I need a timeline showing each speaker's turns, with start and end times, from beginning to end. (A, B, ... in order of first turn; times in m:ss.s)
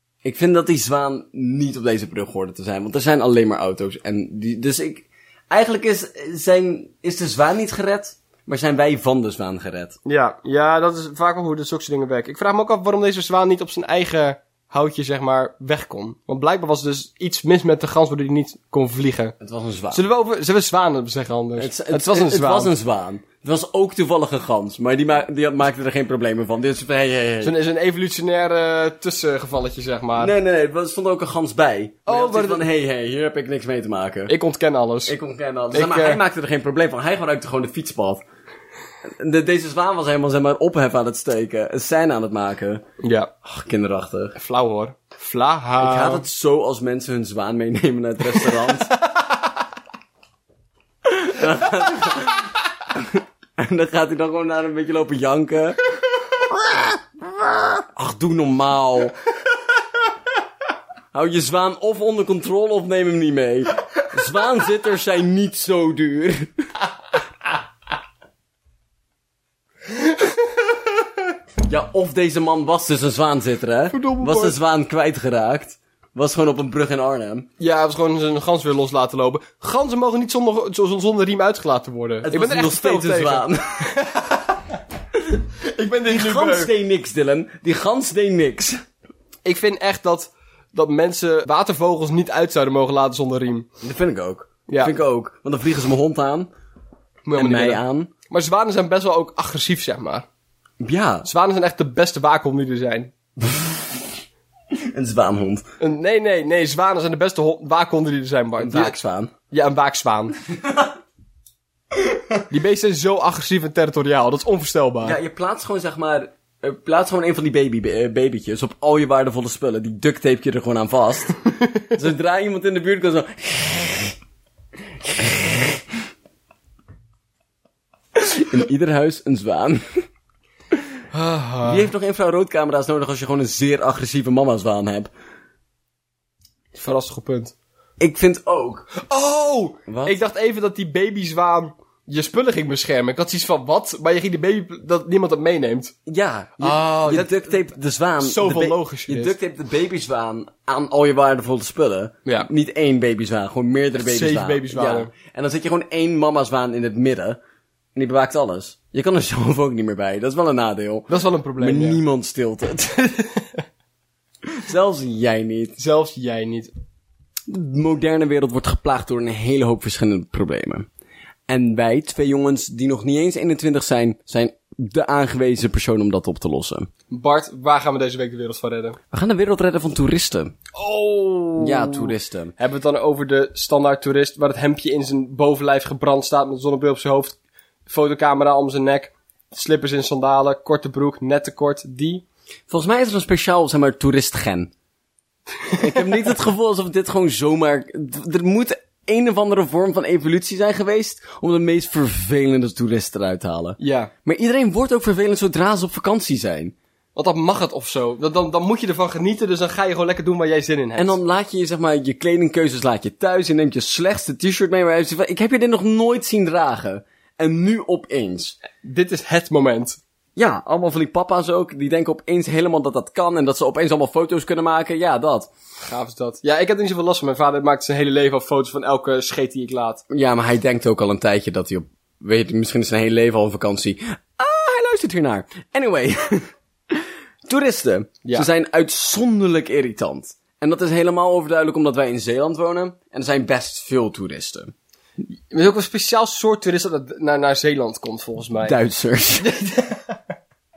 0:00.2-0:10.0 A
0:10.0-0:19.4 B
0:19.4-0:20.0 A
0:19.9-0:22.7 B
0:21.6-0:27.5 A
0:27.4-0:30.3 B
0:30.2-0:34.3 A
0:32.1-0:32.6 B
0:34.3-0:35.2 B
0:35.1-0:38.2 A
0:35.7-0:36.2 B
0:39.1-0:42.8 A
0:43.0-0:43.3 B
0:43.4-0:44.4 A
0:44.4-0:46.2 B
0:45.8-0:49.0 A
0:48.3-0:49.4 B
0:51.0-0:55.8 A
0:56.6-0:59.2 A
1:01.1-1:06.7 A
1:10.0-1:10.8 B
1:11.6-1:17.5 A
1:13.9-1:14.6 B
1:17.6-1:24.8 B
1:22.2-1:23.9 A
1:25.6-1:26.7 B
1:26.1-1:28.8 A
1:29.4-1:33.7 B
1:33.8-1:36.5 A
1:34.7-1:34.9 B
1:37.2-1:40.3 B
1:37.4-1:38.1 A
1:40.8-1:41.3 A
1:41.2-1:43.1 B
1:43.4-1:44.1 A
1:44.9-1:45.6 A
1:45.8-1:49.0 B
1:48.6-1:49.3 A
1:49.5-1:50.4 B
1:50.6-1:50.9 A
1:52.0-1:52.4 A
1:52.5-1:55.2 B
1:55.0-2:01.4 A
2:01.9-2:04.2 A
2:05.0-2:05.8 A
2:08.2-2:10.0 A
2:11.1-2:11.9 B
2:11.6-2:15.1 A
2:16.8-2:17.5 B
2:18.0-2:18.9 A
2:19.0-2:25.9 B
2:19.9-2:20.2 A
2:26.1-2:37.4 A
2:26.6-2:27.6 B
2:28.2-2:29.4 B
2:34.0-2:35.1 B
2:38.0-2:43.0 A
2:41.1-2:42.0 B
2:43.0-2:43.6 B
2:44.6-2:45.8 A
2:45.8-2:46.7 B
2:47.5-2:50.9 A
2:51.5-2:56.9 A
2:57.1-2:59.0 B
2:59.1-3:00.6 A
3:00.7-3:12.2 B
3:01.6-3:02.5 A
3:12.7-3:14.7 A
3:15.7-3:26.8 A
3:23.8-3:24.1 B
3:27.2-3:31.2 B
3:31.0-3:38.6 A
3:38.8-3:40.0 B
3:40.4-3:45.5 A
3:45.8-3:50.0 B
3:50.1-4:04.7 A
4:05.4-4:08.8 B
4:08.6-4:09.5 A
4:09.4-4:10.2 B